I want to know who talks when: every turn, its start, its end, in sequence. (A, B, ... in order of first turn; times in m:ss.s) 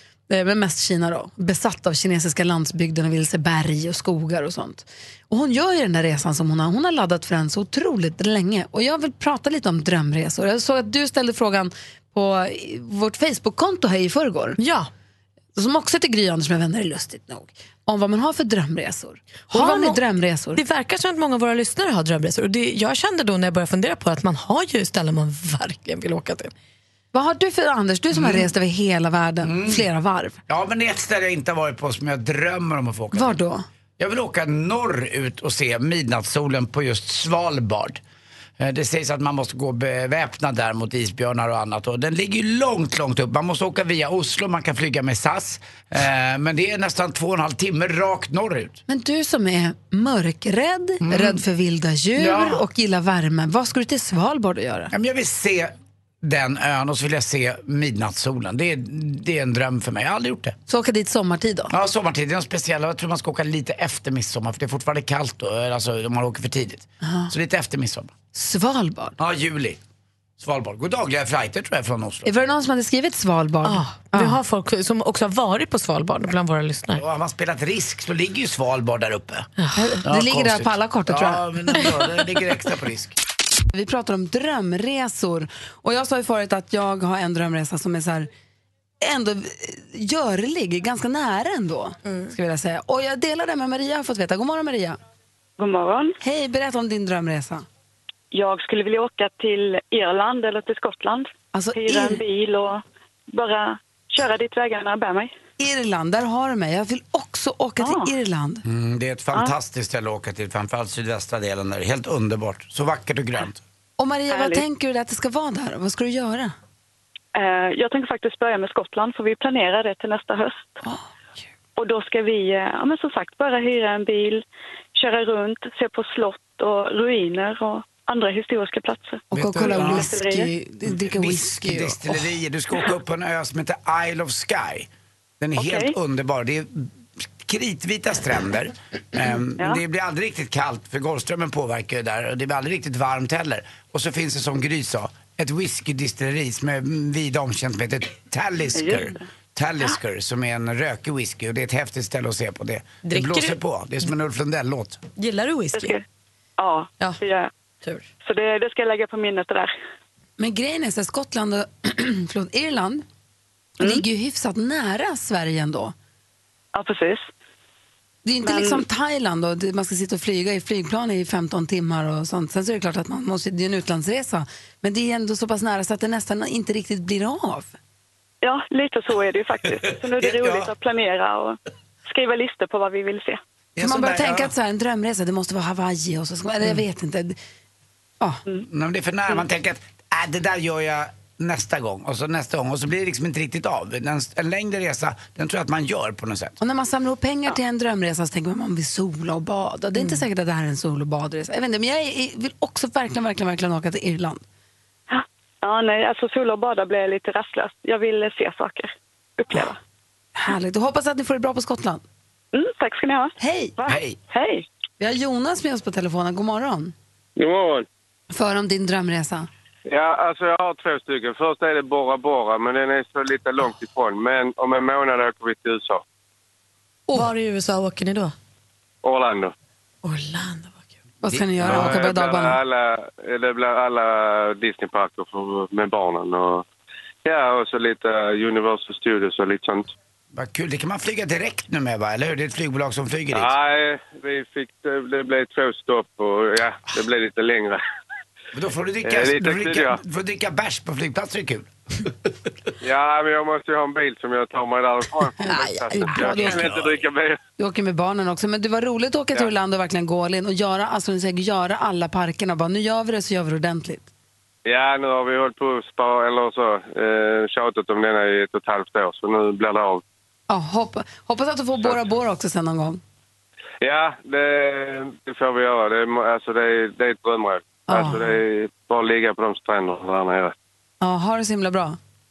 0:00.3-0:14.6 A
0:14.6-0:14.9 B
0:15.6-0:20.6 A
0:19.5-0:20.0 B
0:20.5-0:26.5 B
0:27.1-0:30.4 A
0:28.1-0:28.5 C
0:29.4-0:29.8 C
0:30.5-0:33.3 C
0:33.1-0:33.6 A
0:34.0-0:38.0 C
0:38.6-0:48.8 C
0:48.9-0:54.9 A
0:51.0-0:51.4 C
0:52.2-0:52.6 C
0:54.9-1:00.6 C
1:00.7-1:01.7 A
1:01.7-1:08.1 C
1:07.0-1:07.3 A
1:08.3-1:09.2 A
1:09.2-1:09.8 C
1:10.4-1:12.3 C
1:12.2-1:14.4 A
1:13.6-1:17.0 B
1:16.9-1:19.5 C
1:19.6-1:19.9 B
1:19.8-1:21.8 A
1:20.0-1:23.1 C
1:23.7-1:28.3 A
1:29.0-1:35.0 A
1:35.6-1:36.2 D
1:36.2-1:37.6 A
1:38.3-1:45.3 D
1:41.5-1:42.2 A
1:45.6-1:48.6 A
1:47.8-1:48.1 D
1:48.6-1:53.6 C
1:54.0-1:56.5 A
1:54.3-1:54.6 D
1:57.3-2:00.8 D
2:01.8-2:04.4 D
2:05.0-2:10.5 D
2:09.3-2:12.2 A
2:09.3-2:10.1 C
2:10.9-2:14.9 C
2:15.4-2:35.0 C
2:15.6-2:15.9 D
2:28.7-2:29.2 D
2:33.0-2:33.6 B
2:35.2-2:36.0 B
2:35.7-2:36.0 D
2:36.6-2:37.5 D
2:37.8-2:38.1 B
2:38.2-2:39.7 D
2:40.4-2:43.0 A
2:43.8-2:45.9 A
2:46.7-2:47.3 D
2:48.2-2:57.7 A
2:48.4-2:48.8 D
2:58.4-3:03.4 D
3:00.0-3:00.7 C
3:03.8-3:04.5 C
3:03.8-3:07.4 A
3:08.7-3:16.6 C
3:16.6-3:24.4 A
3:25.1-3:29.8 D
3:30.4-3:32.0 A
3:32.5-3:34.6 D
3:33.4-3:33.7 A
3:33.9-3:34.2 C
3:35.0-3:36.9 A
3:38.3-3:39.5 A
3:39.9-3:46.0 E
3:47.1-3:48.3 B
3:49.0-3:49.5 E
3:50.0-3:50.8 B
3:51.2-3:52.6 A
3:51.6-3:52.0 C
3:51.6-3:56.6 E
3:57.2-3:59.9 E
4:00.3-4:03.5 C
4:03.3-4:07.8 E
4:08.5-4:12.1 C
4:09.0-4:10.0 E
4:12.8-4:17.4 E
4:15.4-4:16.6 A
4:16.2-4:17.0 C
4:17.6-4:24.1 A
4:24.6-4:30.0 E
4:30.5-4:33.0 A
4:33.8-4:40.5 E
4:37.9-4:38.2 A
4:41.0-4:42.0 A